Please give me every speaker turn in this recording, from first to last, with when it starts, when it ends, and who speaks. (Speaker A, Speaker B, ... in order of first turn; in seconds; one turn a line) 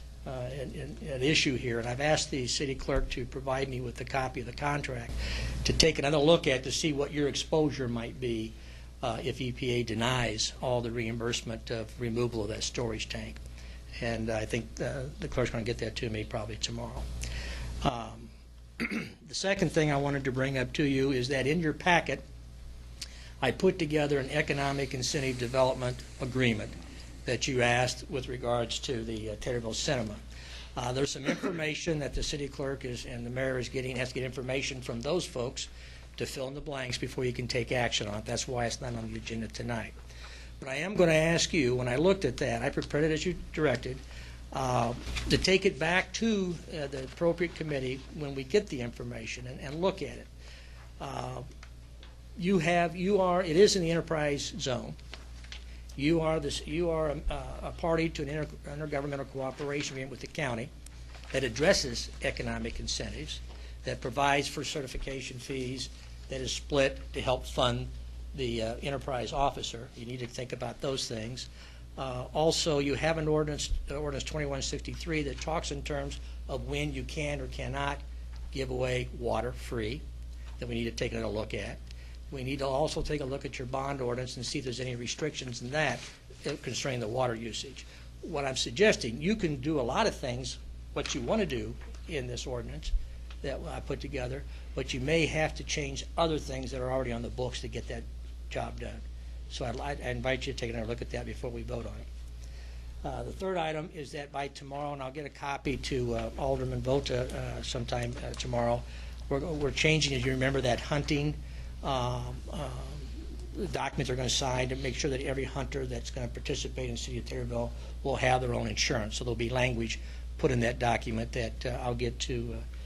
Speaker A: 0.2-13.4
Speaker A: 14.0-17.1
Speaker A: 17.8-22.2
Speaker A: 23.4-30.2
Speaker A: 30.8-39.9
Speaker A: 40.6-50.3
Speaker A: 51.0-51.5
Speaker A: 52.4-55.0
Speaker A: 56.0-60.7
Speaker A: 61.3-80.0
Speaker A: 80.6-81.8
Speaker A: 82.3-102.1
Speaker A: 103.0-122.6